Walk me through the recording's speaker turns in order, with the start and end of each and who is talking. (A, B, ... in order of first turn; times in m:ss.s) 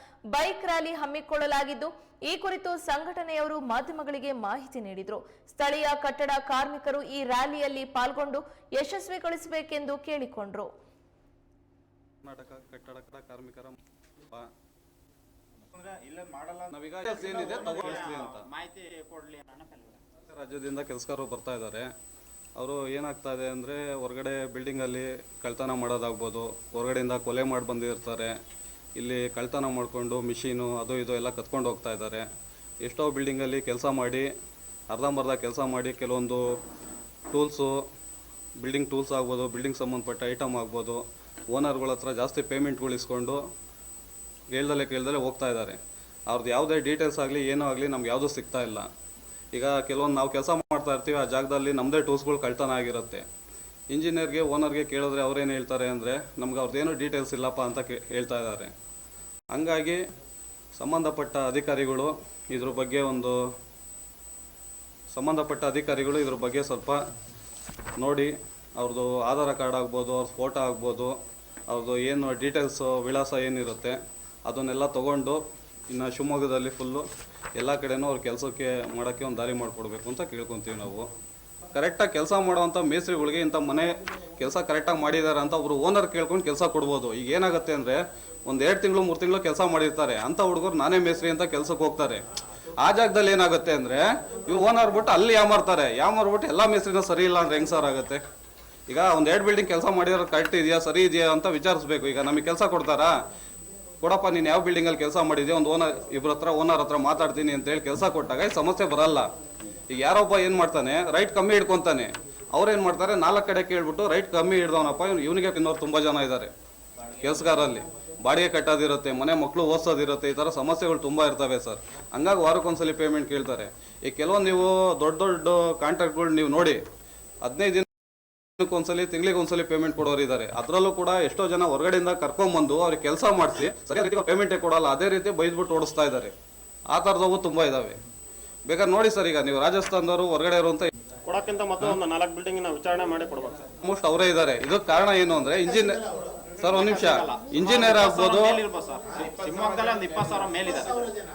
0:00.3-0:10.7 A
0:12.2-0:13.8 B
0:15.7-0:20.0 C
0:16.7-0:18.5 B
0:20.3-0:21.9 B
0:22.6-0:28.4 B
0:29.0-0:32.3 B
0:32.8-0:34.3 B
0:34.9-0:36.6 B
0:37.3-0:37.8 B
0:38.6-0:43.4 B
0:44.5-0:48.9 B
0:49.5-0:53.2 B
0:53.9-0:58.7 B
0:59.5-1:00.0 B
1:00.8-1:03.4 B
1:05.1-1:07.0 B
1:08.0-1:11.2 B
1:11.7-1:17.1 B
1:17.6-1:21.1 B
1:21.7-1:32.2 B
1:32.8-1:38.2 B
1:38.9-1:43.1 B
1:44.0-1:49.3 B
1:49.9-1:56.5 B
1:57.2-2:06.8 B
2:07.4-2:07.9 B
2:08.6-2:16.3 B
2:16.9-2:18.0 B
2:18.7-2:20.9 B
2:21.3-2:23.7 D
2:23.8-2:26.1 B
2:26.6-2:28.6 B
2:26.6-2:31.2 C